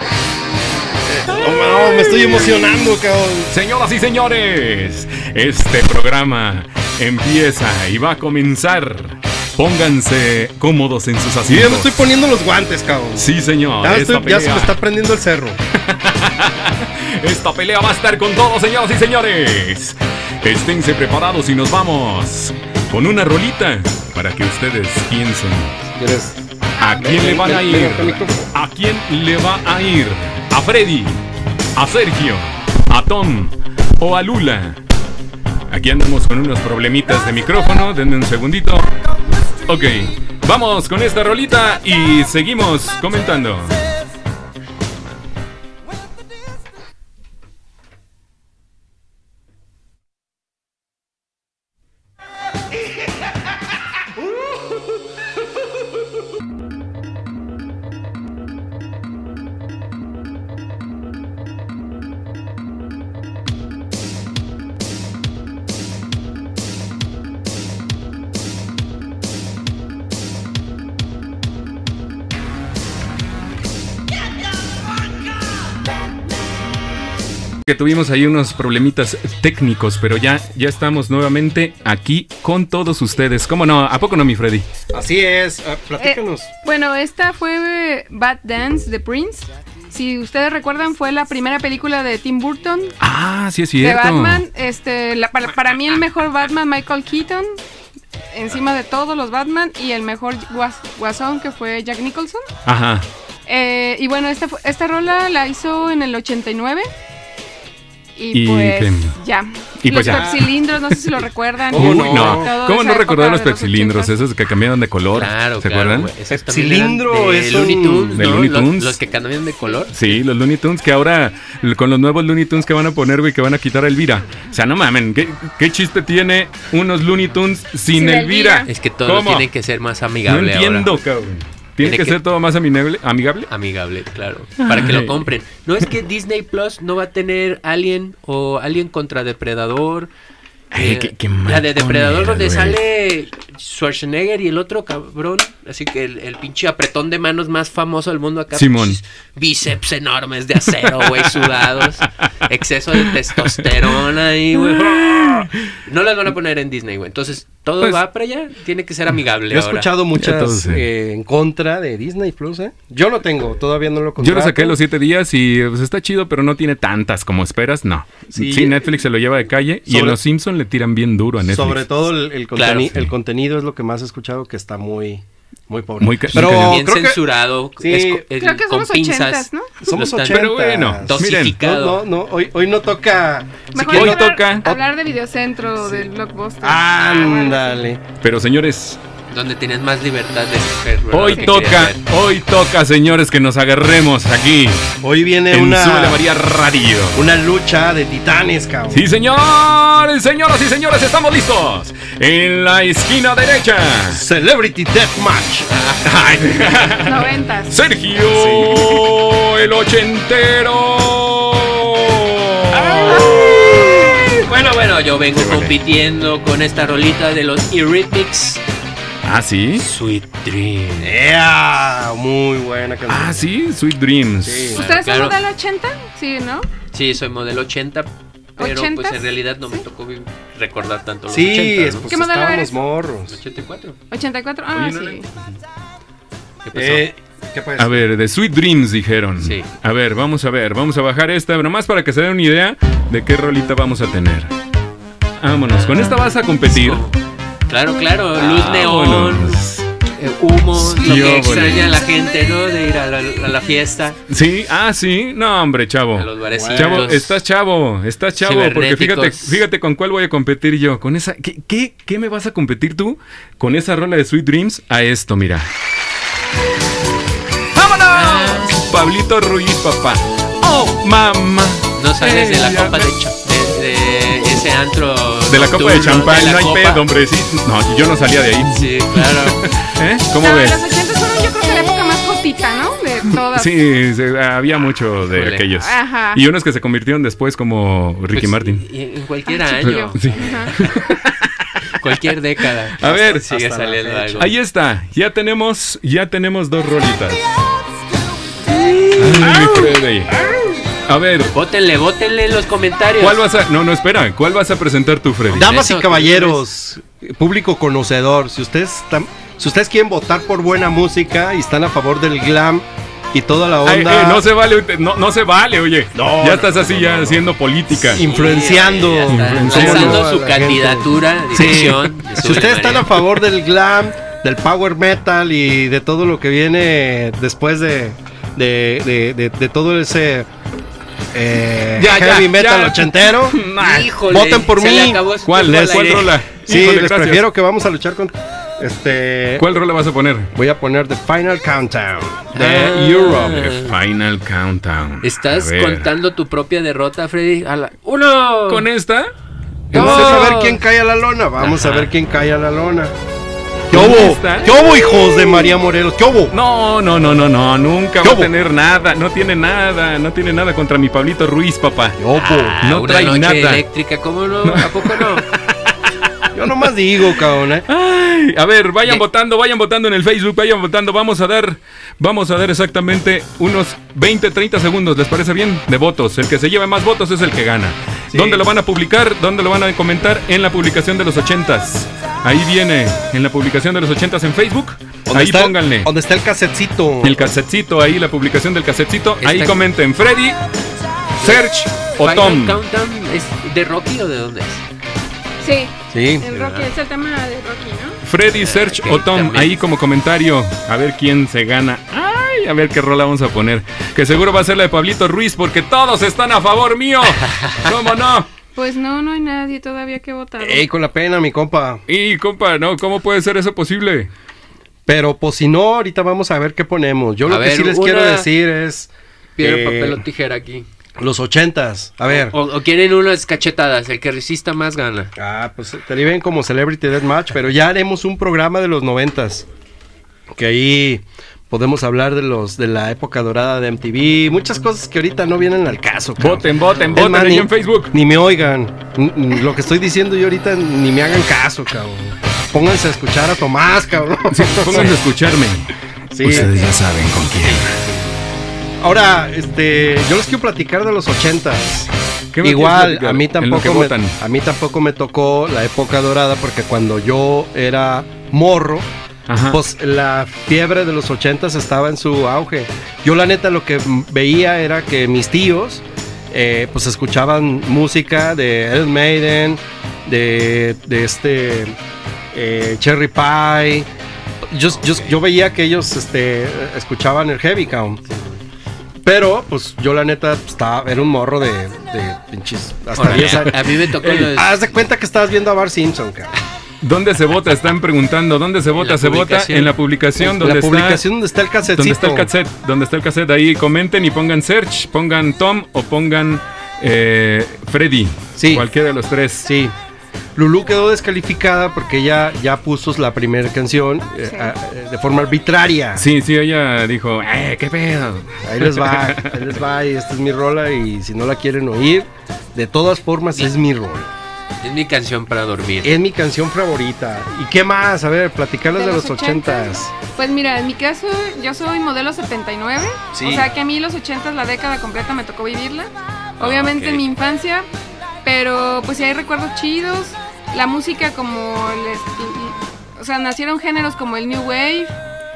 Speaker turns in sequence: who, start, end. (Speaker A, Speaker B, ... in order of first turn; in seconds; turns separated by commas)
Speaker A: 1.0-3.5, Speaker B: 1.4-2.7, Speaker B: 3.5-11.9, Speaker A: 11.5-13.3, Speaker B: 13.2-14.8, Speaker A: 13.8-15.6, Speaker B: 15.7-25.8, Speaker A: 25.9-28.5, Speaker B: 26.8-31.2, Speaker B: 31.8-34.8, Speaker B: 35.7-38.9, Speaker B: 39.7-43.9, Speaker B: 77.7-84.7, Speaker A: 84.9-86.5, Speaker C: 86.0-92.9, Speaker B: 93.0-94.5, Speaker C: 93.8-97.6, Speaker C: 98.3-102.4, Speaker B: 102.7-103.1, Speaker C: 103.5-106.9, Speaker C: 108.2-114.1, Speaker B: 108.3-109.2, Speaker B: 109.8-110.5, Speaker A: 111.7-112.5, Speaker B: 111.7-116.1, Speaker D: 115.1-120.2, Speaker A: 116.3-118.3, Speaker B: 118.2-119.0, Speaker B: 119.9-129.5, Speaker C: 127.9-128.7, Speaker D: 128.7-130.9, Speaker B: 130.3-133.5, Speaker D: 131.8-132.2, Speaker D: 133.5-140.1, Speaker B: 134.6-135.3, Speaker B: 140.7-142.8, Speaker D: 140.7-159.9, Speaker B: 148.5-149.0, Speaker B: 154.6-155.6, Speaker A: 159.5-164.8, Speaker B: 160.2-160.8, Speaker B: 164.2-171.8, Speaker A: 168.3-168.8, Speaker A: 169.9-170.2, Speaker A: 171.4-177.2, Speaker D: 172.5-173.0, Speaker B: 176.0-176.8, Speaker D: 176.3-180.5, Speaker A: 177.8-178.2, Speaker C: 178.3-179.9, Speaker A: 179.8-184.8, Speaker B: 180.1-181.6, Speaker D: 181.0-182.0, Speaker C: 183.7-187.8, Speaker B: 183.9-184.7, Speaker A: 186.6-188.0, Speaker B: 188.2-189.0, Speaker D: 189.3-192.0, Speaker B: 191.1-194.9, Speaker A: 195.0-196.2, Speaker B: 195.5-197.3, Speaker A: 197.1-199.1, Speaker B: 198.9-204.2, Speaker A: 204.1-205.7, Speaker D: 205.7-206.1, Speaker B: 206.0-214.4, Speaker C: 207.0-207.8, Speaker A: 208.3-209.0, Speaker D: 212.7-218.6, Speaker B: 215.3-215.8, Speaker B: 219.2-219.8, Speaker D: 219.8-221.1, Speaker A: 221.0-223.5, Speaker B: 223.1-224.8, Speaker A: 224.4-224.8, Speaker C: 224.7-226.7, Speaker D: 224.8-225.4, Speaker D: 226.9-232.1, Speaker C: 228.6-229.2, Speaker A: 231.3-233.4, Speaker C: 232.1-232.9, Speaker D: 233.3-234.0, Speaker C: 234.1-235.3, Speaker B: 234.7-235.3, Speaker D: 236.7-237.1, Speaker A: 236.7-238.0, Speaker B: 237.8-244.5, Speaker D: 239.4-239.7, Speaker B: 245.4-247.1, Speaker D: 245.7-247.2, Speaker D: 247.7-249.6, Speaker B: 248.4-249.9, Speaker D: 250.2-254.2, Speaker B: 250.8-252.0, Speaker B: 254.3-265.7, Speaker D: 256.1-257.4, Speaker A: 256.5-257.1, Speaker D: 258.4-259.6, Speaker B: 267.7-273.1, Speaker D: 268.1-268.8, Speaker D: 272.0-277.0, Speaker B: 275.5-280.9, Speaker D: 278.7-279.7, Speaker C: 280.4-283.7, Speaker B: 283.5-288.8, Speaker D: 285.3-285.7, Speaker C: 285.8-286.4, Speaker D: 288.3-290.9, Speaker C: 289.5-290.7, Speaker B: 289.8-292.1, Speaker D: 291.9-294.5, Speaker B: 293.0-293.4, Speaker A: 293.0-294.5, Speaker B: 294.4-297.5, Speaker D: 298.7-299.9, Speaker B: 299.2-300.4, Speaker B: 301.1-301.5, Speaker D: 301.5-303.4, Speaker B: 303.2-305.7, Speaker D: 305.5-306.6, Speaker A: 305.5-314.5, Speaker B: 313.9-318.2, Speaker A: 316.1-330.5, Speaker D: 318.1-323.2, Speaker B: 319.3-320.3, Speaker A: 331.3-333.6, Speaker B: 332.0-334.2, Speaker D: 333.8-336.4, Speaker A: 334.2-335.3, Speaker B: 335.4-337.4, Speaker A: 336.0-339.7, Speaker B: 339.6-340.5, Speaker A: 340.5-342.7, Speaker D: 342.6-343.9, Speaker B: 342.6-346.1, Speaker D: 345.2-348.9, Speaker B: 348.7-349.3, Speaker B: 349.9-350.6, Speaker D: 349.9-350.8, Speaker A: 349.9-353.1, Speaker D: 351.6-352.1, Speaker A: 353.9-356.6, Speaker B: 353.9-354.8, Speaker B: 356.5-362.2, Speaker A: 358.2-358.5, Speaker A: 362.2-362.8, Speaker D: 362.4-365.5, Speaker B: 362.8-363.8, Speaker B: 364.6-365.9, Speaker A: 366.5-367.9, Speaker B: 367.9-386.1, Speaker A: 378.3-378.6, Speaker A: 385.3-387.5, Speaker B: 387.2-390.6, Speaker D: 389.4-389.8, Speaker D: 391.4-391.6, Speaker B: 391.4-392.8, Speaker D: 392.2-394.8, Speaker C: 395.6-398.2, Speaker A: 396.1-396.8, Speaker B: 398.2-408.5, Speaker D: 398.5-399.8, Speaker D: 407.4-407.9, Speaker C: 408.8-410.9, Speaker A: 410.6-412.0, Speaker B: 412.1-414.3, Speaker A: 415.1-420.2, Speaker D: 417.5-418.5, Speaker D: 419.6-420.9, Speaker A: 421.2-422.6, Speaker D: 422.3-425.3, Speaker A: 425.4-429.7, Speaker A: 430.5-445.2, Speaker B: 436.4-438.1, Speaker B: 444.5-448.0, Speaker A: 446.3-446.8, Speaker D: 447.6-448.3, Speaker A: 449.0-452.1, Speaker B: 452.5-454.4, Speaker A: 452.6-459.1, Speaker B: 459.5-459.8, Speaker A: 459.7-472.0, Speaker A: 472.5-474.1, Speaker A: 474.7-478.2, Speaker D: 475.0-475.3, Speaker D: 478.3-478.6, Speaker A: 479.2-486.5, Speaker D: 483.1-484.8, Speaker B: 483.3-483.7, Speaker B: 487.0-491.2, Speaker D: 488.9-489.9, Speaker A: 490.4-492.5, Speaker B: 491.9-499.7, Speaker A: 498.6-498.9, Speaker A: 499.6-499.9, Speaker A: 500.6-506.3, Speaker C: 504.5-504.7, Speaker B: 506.2-509.6, Speaker A: 508.6-514.3, Speaker D: 514.8-516.2, Speaker A: 516.0-520.1, Speaker C: 518.9-527.9, Speaker A: 523.3-523.7, Speaker D: 526.6-527.2, Speaker C: 528.5-535.2